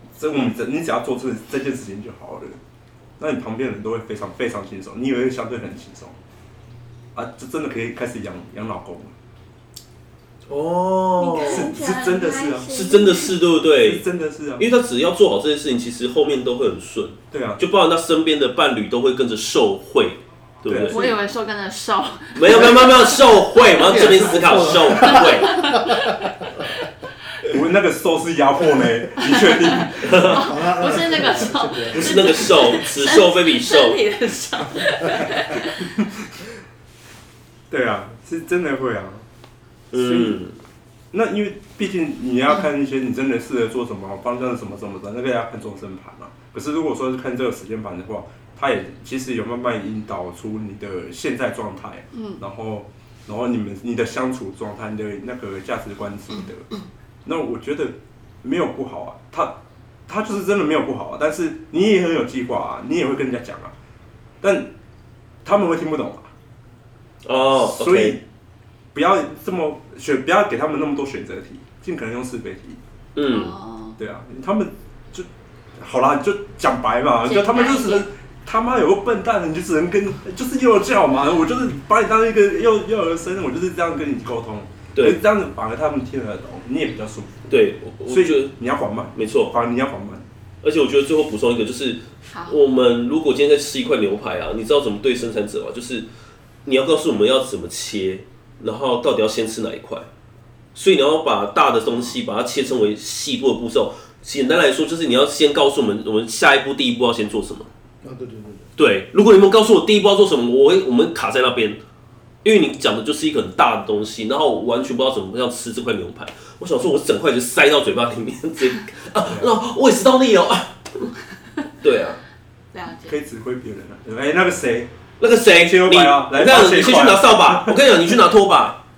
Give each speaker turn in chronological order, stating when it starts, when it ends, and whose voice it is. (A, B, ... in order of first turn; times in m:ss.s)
0:00.2-0:02.6 A
0:03.2-0:06.2 A
0:07.2-0:09.1 A
0:10.5-0:11.7 B
0:11.2-0:13.4 C
0:11.4-0:12.7 A
0:12.7-0:14.0 B
0:13.8-0:14.7 A
0:14.6-0:21.2 B
0:17.3-0:17.6 A
0:20.7-0:21.1 A
0:20.9-0:23.9 C
0:22.3-0:25.7 B
0:22.5-0:22.8 D
0:23.8-0:26.7 D
0:25.1-0:26.2 C
0:27.5-0:30.4 A
0:29.2-0:35.9 C
0:30.0-0:30.6 B
0:30.3-0:32.3 D
0:31.9-0:34.0 B
0:35.8-0:36.3 A
0:37.7-0:39.2 A
0:39.9-0:40.6 B
0:39.9-0:40.4 A
0:41.1-0:56.7 A
0:52.1-0:52.4 C
0:57.2-0:59.6 A
1:00.1-1:03.7 A
1:04.4-1:04.7 A
1:05.4-1:06.3 A
1:07.2-1:08.2 B
1:07.6-1:08.2 A
1:08.9-1:12.8 A
1:13.2-1:13.6 B
1:13.3-1:14.0 C
1:14.0-1:27.5 A
1:17.2-1:18.1 C
1:27.5-1:28.5 B
1:28.1-1:30.2 A
1:29.2-1:29.5 B
1:30.6-1:36.1 B
1:32.3-1:32.6 C
1:36.6-1:40.1 B
1:40.8-1:47.7 B
1:48.0-1:48.7 D
1:48.8-1:51.8 B
1:52.4-2:01.1 B
1:59.2-1:59.5 A
2:01.8-2:02.2 B
2:02.7-2:03.2 C
2:03.0-2:04.9 A
2:05.2-2:08.8 B
2:05.5-2:08.2 A